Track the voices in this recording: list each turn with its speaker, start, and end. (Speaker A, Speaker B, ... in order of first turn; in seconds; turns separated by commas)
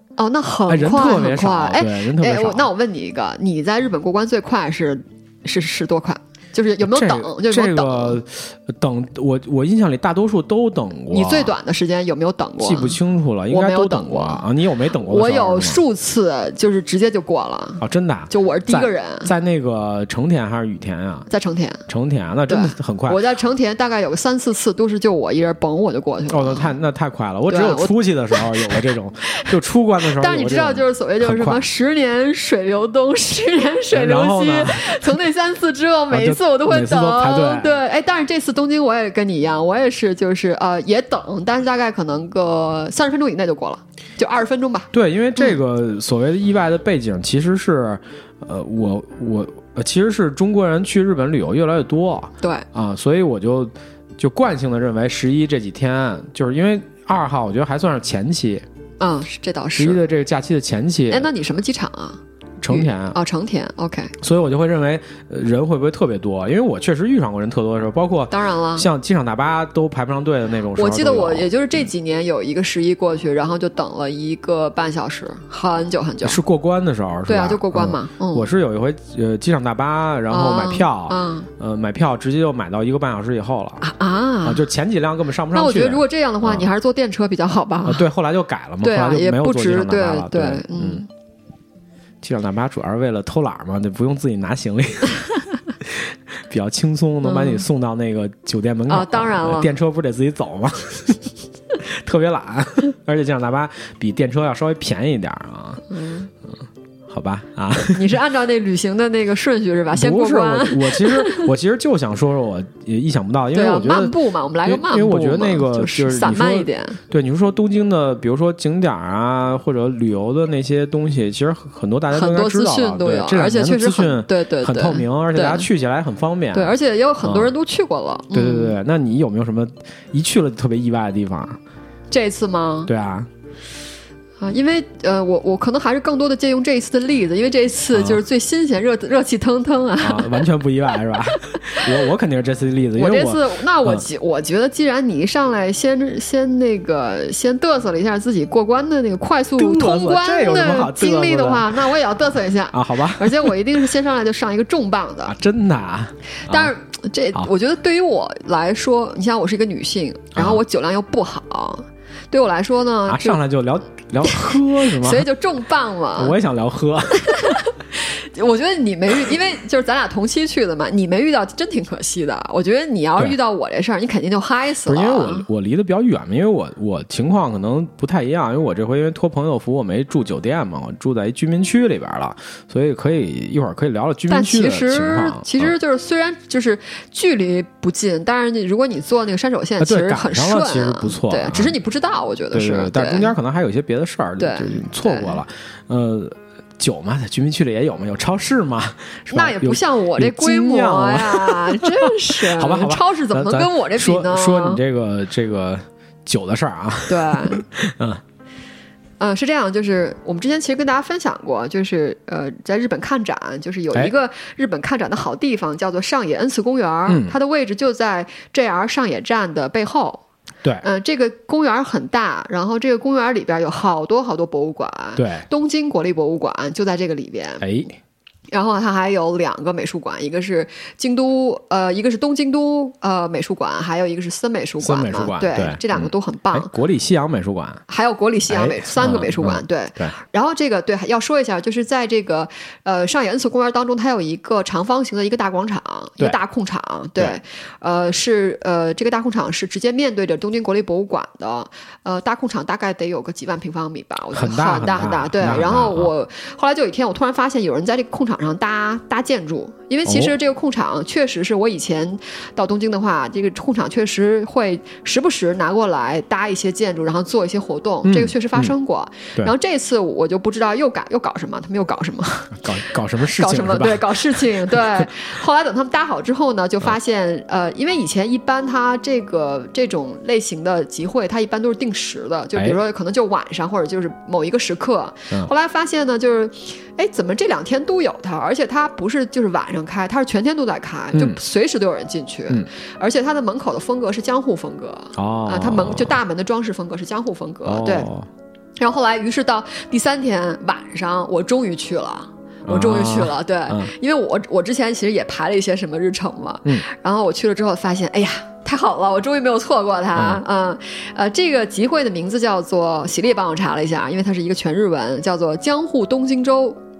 Speaker A: 0.2-8.2, Speaker B: 0.7-2.7, Speaker B: 6.8-11.6, Speaker A: 11.1-13.0, Speaker B: 12.6-15.8, Speaker A: 13.5-14.4, Speaker A: 15.0-19.3, Speaker B: 17.8-21.3, Speaker A: 21.3-21.9, Speaker B: 21.9-23.2, Speaker A: 22.5-26.7, Speaker B: 26.3-31.6, Speaker A: 27.5-29.5, Speaker A: 30.1-45.5, Speaker B: 33.9-35.2, Speaker B: 36.1-37.8, Speaker B: 44.9-58.6, Speaker A: 52.4-52.6, Speaker A: 59.0-60.0, Speaker B: 59.8-61.3, Speaker A: 61.1-64.1, Speaker B: 62.6-63.2, Speaker B: 64.2-71.5, Speaker A: 68.3-68.9, Speaker A: 70.8-76.4, Speaker B: 76.2-83.8, Speaker A: 77.3-78.5, Speaker A: 80.3-81.5, Speaker A: 83.8-84.6, Speaker B: 84.4-86.7, Speaker A: 85.5-88.1, Speaker B: 87.8-91.0, Speaker A: 88.8-91.1, Speaker B: 92.2-105.8, Speaker A: 97.2-97.6, Speaker A: 98.9-99.7, Speaker A: 105.9-106.3, Speaker B: 107.1-108.1, Speaker A: 107.9-111.5, Speaker B: 109.9-127.5, Speaker A: 113.5-117.0, Speaker A: 122.1-125.7, Speaker A: 126.5-128.8, Speaker B: 128.3-131.6, Speaker A: 132.1-132.9, Speaker B: 132.9-133.3, Speaker A: 134.4-140.5, Speaker B: 137.9-138.2, Speaker B: 140.0-144.0, Speaker A: 142.9-155.4, Speaker B: 149.6-151.8, Speaker B: 152.7-153.8, Speaker B: 155.3-156.7, Speaker A: 156.4-163.4, Speaker B: 160.3-160.6, Speaker B: 163.1-165.3, Speaker A: 164.2-166.3, Speaker B: 166.2-167.6, Speaker A: 167.2-175.4, Speaker B: 174.8-185.7, Speaker A: 184.3-193.3, Speaker B: 189.8-191.8, Speaker B: 192.5-208.2, Speaker A: 194.4-195.4, Speaker A: 199.3-204.8, Speaker A: 207.1-207.6, Speaker A: 209.2-220.2, Speaker B: 217.1-217.3, Speaker A: 220.8-227.7, Speaker B: 225.2-225.4, Speaker B: 227.6-227.9, Speaker A: 228.5-236.7, Speaker B: 234.8-237.8, Speaker A: 237.9-298.1, Speaker B: 238.5-240.1, Speaker B: 254.3-256.1, Speaker B: 260.1-260.3, Speaker B: 268.0-268.7, Speaker B: 272.6-275.1, Speaker B: 291.1-291.4, Speaker B: 295.1-296.2, Speaker B: 297.6-298.3, Speaker A: 298.8-316.8, Speaker B: 302.6-303.9, Speaker B: 310.1-310.4